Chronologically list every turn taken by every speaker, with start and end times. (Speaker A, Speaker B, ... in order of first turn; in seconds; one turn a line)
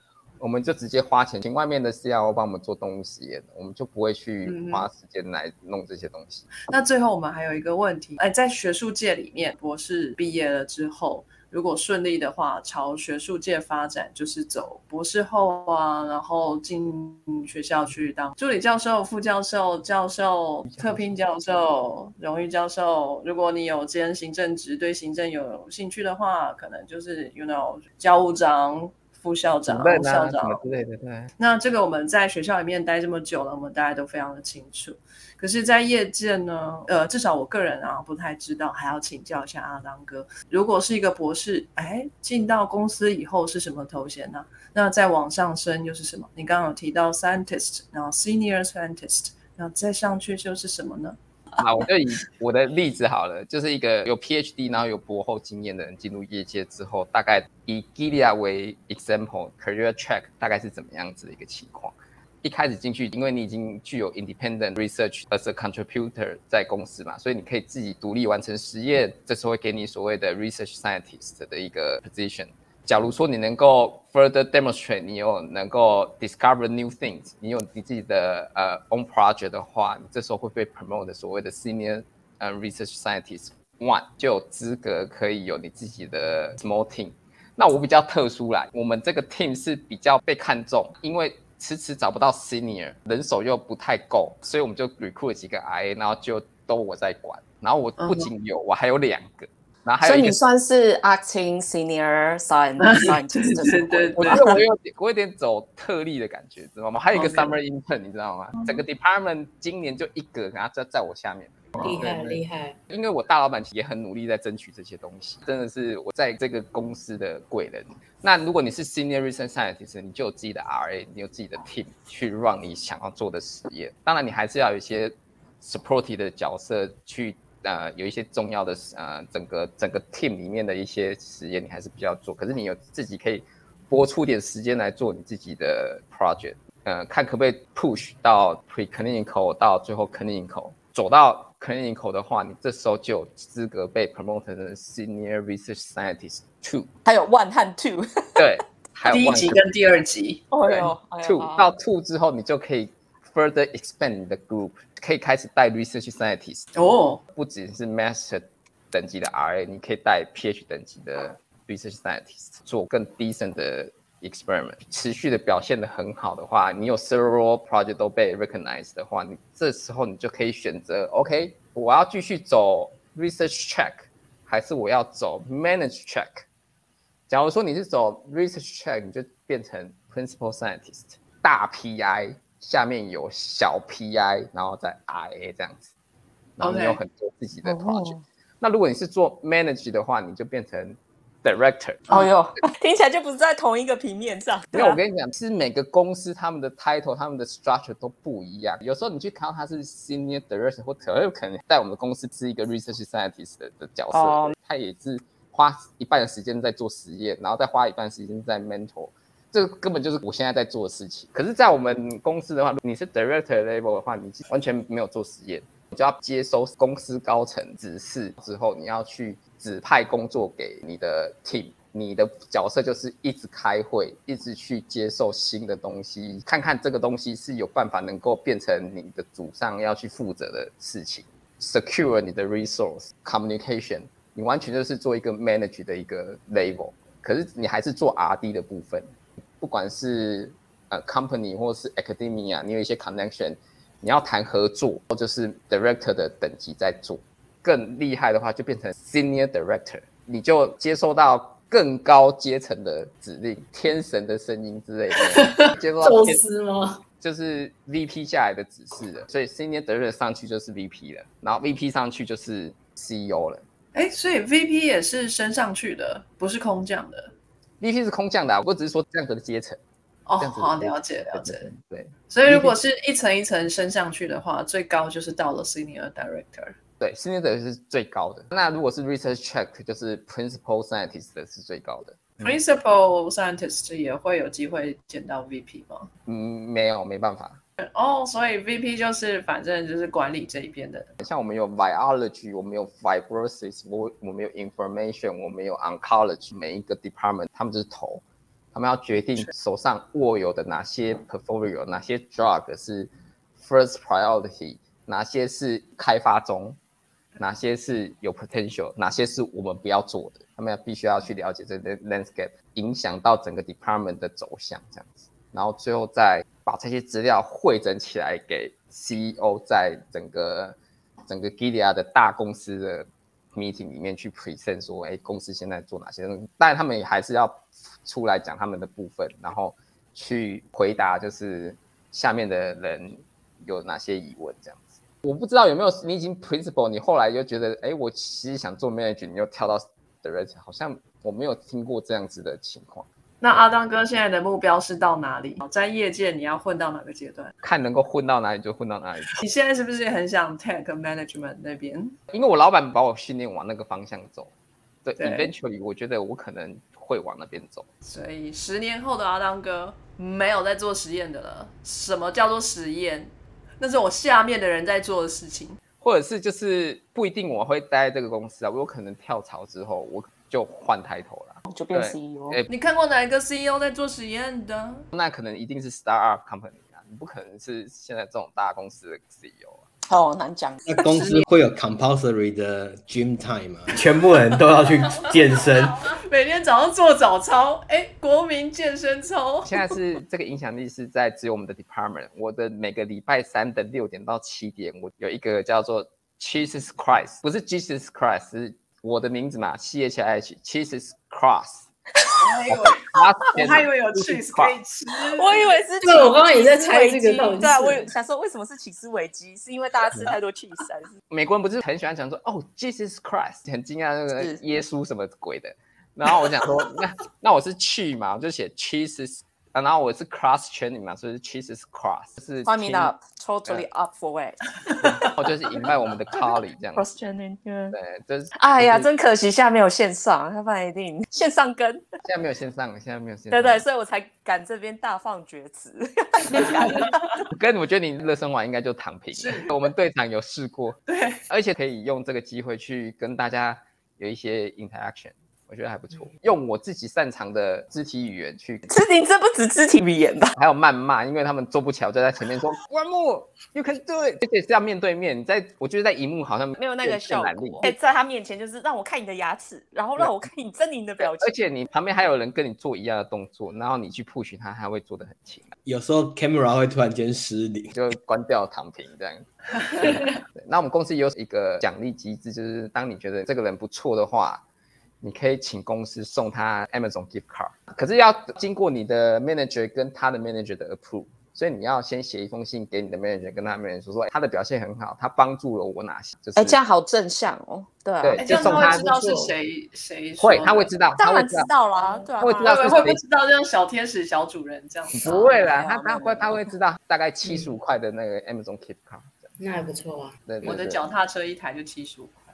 Speaker A: 0.4-6.5
Speaker B: 4.4-4.9
Speaker B: 6.7-30.6
Speaker A: 20.7-21.1
Speaker A: 29.7-31.3
Speaker B: 31.4-51.1
Speaker A: 51.6-100.4
Speaker B: 98.0-98.3
Speaker C: 100.0-104.5
Speaker B: 102.8-104.6
Speaker A: 104.2-146.9
Speaker B: 107.1-107.5
Speaker D: 111.8-112.8
Speaker C: 147.0-148.4
Speaker A: 148.3-149.6
Speaker B: 149.1-150.9
Speaker C: 150.5-151.7
Speaker A: 150.6-156.7
Speaker B: 156.7-157.2
Speaker A: 157.3-176.4
Speaker A: 177.3-185.9
Speaker A: 186.6-192.0
Speaker B: 186.6-187.0
Speaker C: 187.6-188.2
Speaker C: 192.1-195.0
Speaker A: 194.7-256.4
Speaker C: 204.1-204.5
Speaker D: 255.1-257.0
Speaker A: 257.2-263.6
Speaker B: 263.9-267.3
Speaker A: 267.8-269.8
Speaker B: 270.3-271.7
Speaker A: 270.4-272.7
Speaker B: 272.3-276.8
Speaker A: 277.0-282.5
Speaker B: 282.4-286.1
Speaker A: 286.2-287.6
Speaker B: 287.8-291.1
Speaker A: 291.2-306.8
Speaker A: 307.4-320.8
Speaker A: 321.3-343.1
Speaker B: 343.4-347.5
Speaker A: 347.6-349.4
Speaker B: 349.3-352.1
Speaker A: 352.3-354.5
Speaker A: 355.0-357.9
Speaker B: 355.2-355.5
Speaker B: 358.0-365.8
Speaker A: 366.0-372.7
Speaker C: 371.7-372.6
Speaker B: 372.7-375.0
Speaker A: 375.1-379.8
Speaker C: 380.1-380.8
Speaker E: 380.9-386.1
Speaker B: 381.1-381.4
Speaker B: 386.0-389.9
Speaker A: 389.6-401.9
Speaker B: 402.3-405.6
Speaker A: 402.7-404.7
Speaker C: 405.3-411.1
Speaker D: 406.0-408.1
Speaker A: 411.3-423.1
Speaker C: 422.6-425.2
Speaker A: 425.0-427.0
Speaker C: 426.9-428.0
Speaker A: 427.9-429.1
Speaker C: 428.6-432.1
Speaker A: 432.2-433.8
Speaker C: 433.5-437.4
Speaker A: 437.5-448.9
Speaker B: 439.3-439.7
Speaker B: 441.1-441.4
Speaker C: 448.9-450.6
Speaker A: 450.6-457.9
Speaker C: 456.8-461.5
Speaker A: 460.1-460.4
Speaker A: 461.2-465.7
Speaker E: 465.8-467.9
Speaker A: 467.9-474.6
Speaker D: 470.0-470.4
Speaker A: 475.2-486.8
Speaker C: 486.6-488.4
Speaker A: 488.2-489.1
Speaker B: 488.4-490.9
Speaker D: 488.5-489.5
Speaker A: 490.4-491.7
Speaker C: 491.2-493.1
Speaker B: 492.0-495.6
Speaker A: 492.4-493.2
Speaker A: 495.1-499.5
Speaker C: 495.2-496.7
Speaker D: 499.6-500.3
Speaker A: 500.4-501.0
Speaker B: 500.6-502.4